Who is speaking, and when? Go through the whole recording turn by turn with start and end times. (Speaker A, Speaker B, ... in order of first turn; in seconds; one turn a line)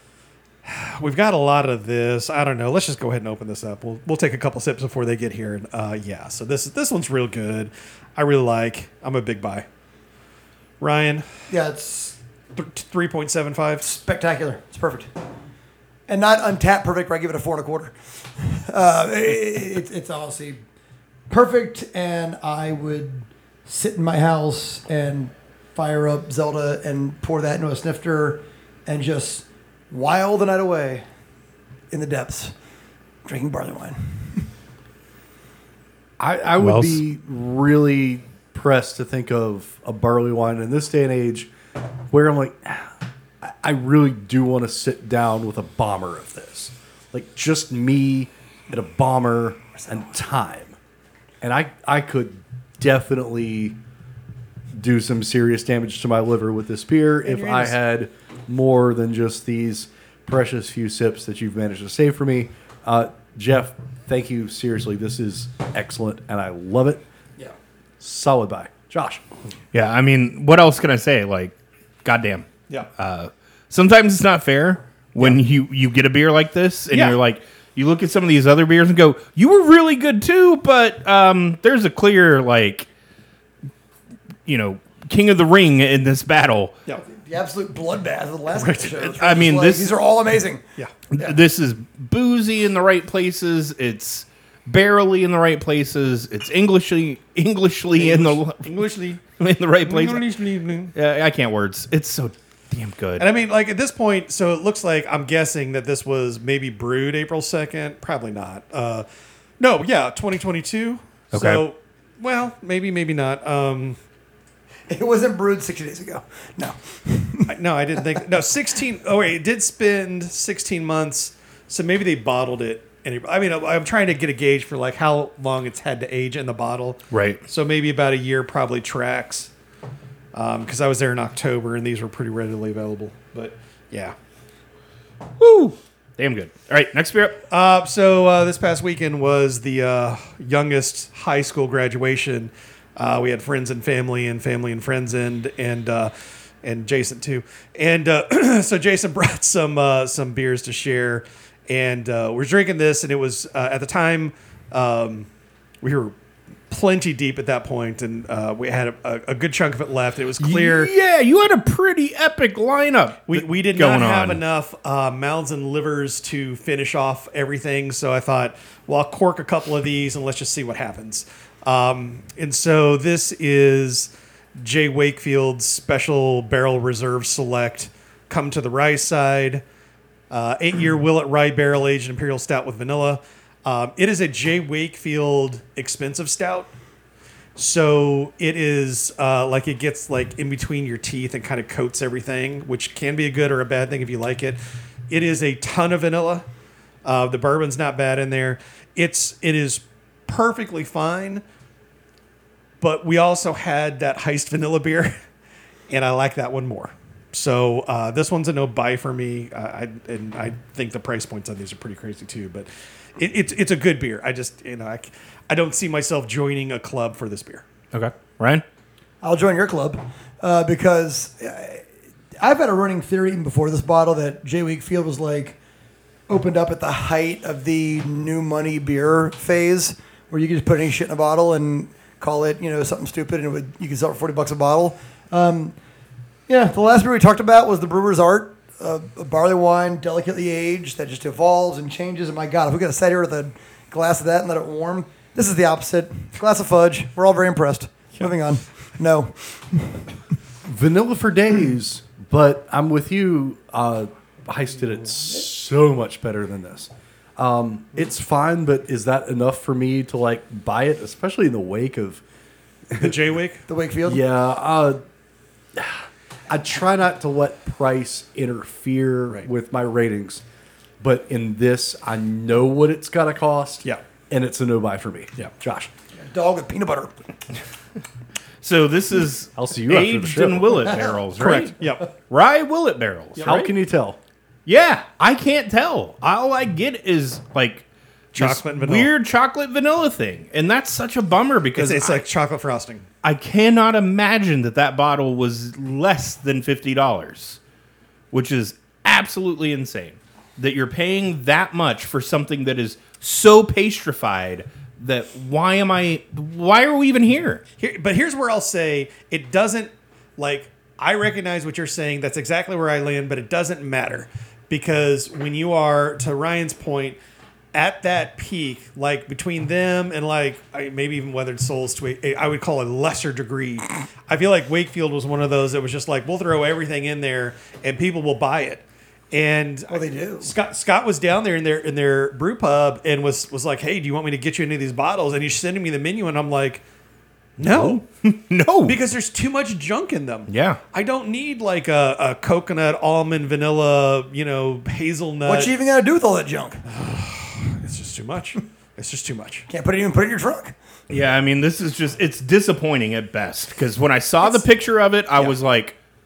Speaker A: 0.6-9.7
Speaker A: 10.8-11.3
Speaker B: 11.5-12.2
Speaker A: 12.5-13.9
Speaker B: 13.8-15.1
Speaker B: 16.1-20.6
Speaker B: 21.3-31.1
Speaker B: 31.9-32.5
Speaker B: 33.2-34.5
Speaker C: 36.2-41.5
Speaker D: 36.6-37.0
Speaker C: 42.1-50.8
Speaker C: 51.4-53.8
Speaker C: 54.8-67.0
Speaker A: 57.2-57.8
Speaker C: 68.0-69.2
Speaker D: 69.7-82.9
Speaker A: 76.9-77.2
Speaker D: 84.5-86.8
Speaker B: 87.0-90.6
Speaker A: 88.5-89.2
Speaker D: 89.2-89.9
Speaker D: 91.1-98.8
Speaker A: 98.0-99.2
Speaker D: 99.4-100.4
Speaker A: 99.8-100.9
Speaker D: 100.9-103.3
Speaker A: 103.2-109.1
Speaker A: 109.6-114.0
Speaker D: 111.3-111.6
Speaker B: 114.9-117.5
Speaker A: 117.5-129.5
Speaker D: 127.1-127.4
Speaker A: 130.3-134.2
Speaker D: 135.4-137.4
Speaker A: 137.5-146.1
Speaker A: 146.6-155.3
Speaker A: 155.8-156.1
Speaker A: 156.7-160.9
Speaker D: 160.4-164.4
Speaker A: 163.3-179.6
Speaker A: 180.3-186.7
Speaker A: 187.6-194.6
Speaker A: 195.1-196.5
Speaker A: 197.0-201.4
Speaker A: 202.8-205.2
Speaker A: 205.9-217.6
Speaker D: 217.9-218.6
Speaker B: 219.2-221.9
Speaker B: 222.4-225.6
Speaker B: 226.3-235.8
Speaker B: 236.5-250.0
Speaker C: 250.6-262.2
Speaker C: 262.9-263.2
Speaker A: 263.0-263.6
Speaker B: 263.7-264.2
Speaker C: 264.1-265.0
Speaker C: 265.8-270.4
Speaker C: 271.0-275.9
Speaker B: 276.2-277.1
Speaker D: 278.6-283.7
Speaker C: 279.6-280.9
Speaker A: 281.4-282.1
Speaker A: 283.4-283.6
Speaker C: 283.4-284.2
Speaker D: 284.7-292.2
Speaker A: 288.3-289.1
Speaker A: 291.8-293.1
Speaker D: 293.2-297.6
Speaker D: 298.3-307.6
Speaker A: 307.8-317.2
Speaker A: 317.7-336.8
Speaker B: 329.9-330.5
Speaker A: 337.6-338.0
Speaker D: 337.6-339.0
Speaker A: 338.9-345.7
Speaker D: 340.5-340.8
Speaker B: 345.4-346.8
Speaker A: 346.9-349.7
Speaker B: 349.7-350.8
Speaker D: 351.1-356.0